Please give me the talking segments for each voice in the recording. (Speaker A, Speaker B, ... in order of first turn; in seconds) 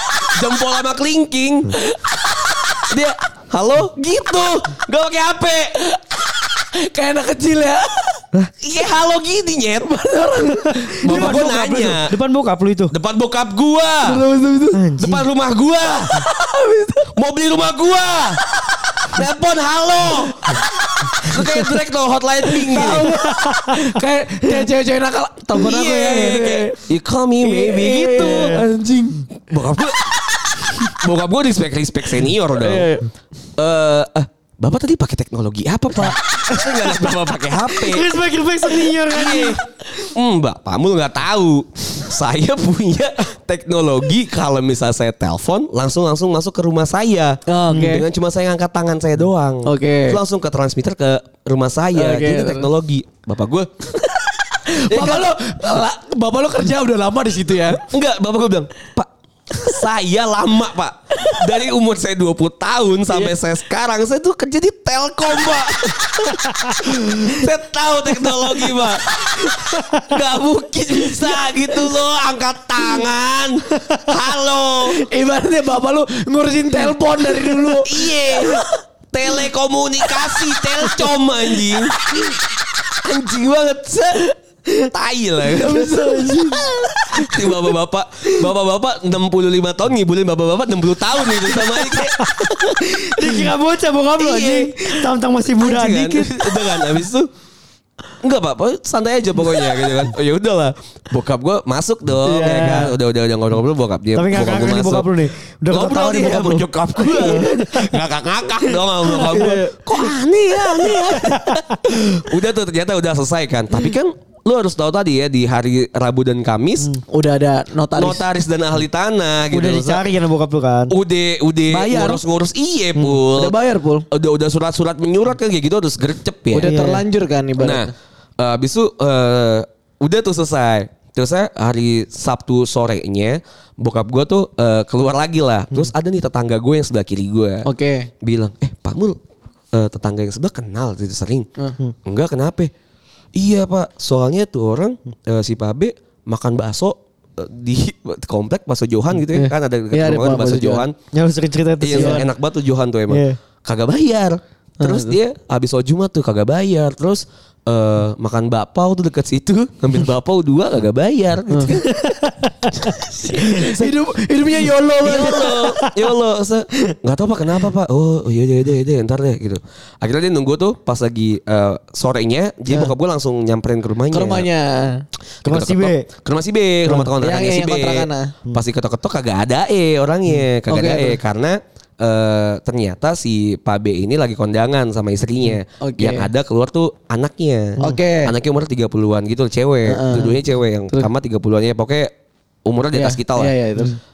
Speaker A: 0.3-1.8, 2.8-5.8, 8.6-10.2, 11.0-12.1, 12.9-14.2, 15.0-16.2, 17.1-18.4, 19.1-20.6, 21.2-23.1, 25.5-28.6, 29.5-30.1, 31.0-32.9, 33.6-38.1, 39.0-53.7, 54.9-55.4, 57.8-75.0, 77.8-82.3, 83.0-84.3, 84.9-86.3, 87.1-93.5, 94.2-97.3, 98.2-105.1, 105.7-117.0, 118.0-120.1, 120.9-123.5, 124.1-126.7, 127.6-137.7, 138.2-139.2, 139.7-141.5, 142.1-142.7, 143.3-151.0, 151.8-162.0, 163.5-163.9, 165.0-174.5, 175.4-192.1, 192.7-193.5
Speaker B: 1.8-2.9, 5.8-8.2, 10.0-11.6, 14.0-14.8, 16.0-17.1, 18.7-19.2, 22.5-26.8, 27.4-29.3, 30.6-30.9, 32.6-33.1, 47.5-48.0, 49.6-50.2, 51.9-52.7, 54.1-57.9, 61.2-61.4, 63.1-63.4, 74.9-78.7, 80.1-81.9, 85.5-86.7, 102.3-102.8, 109.1-109.8, 117.1-118.2, 121.7-122.2, 123.2-124.1, 126.5-127.9, 137.7-138.1, 149.3-150.8, 151.9-152.2, 154.8-155.2, 161.5-161.8, 162.7-165.6, 174.1-175.1, 177.2-178.3, 180.7-181.2, 185.8-186.3, 187.8-188.3, 189.9-190.4, 192.9-193.9
Speaker C: 10.8-12.9, 14.7-15.3, 22.7-23.9, 28.2-28.6, 36.5-39.6, 69.8-70.1, 85.8-86.7, 91.5-97.0, 102.3-103.0, 104.2-108.0, 108.7-109.7, 110.7-112.3, 119.5-120.9, 126.6-127.0, 151.1-152.3, 153.1-153.4, 161.8-162.7, 165.4-166.0, 175.4-176.1, 176.9-177.1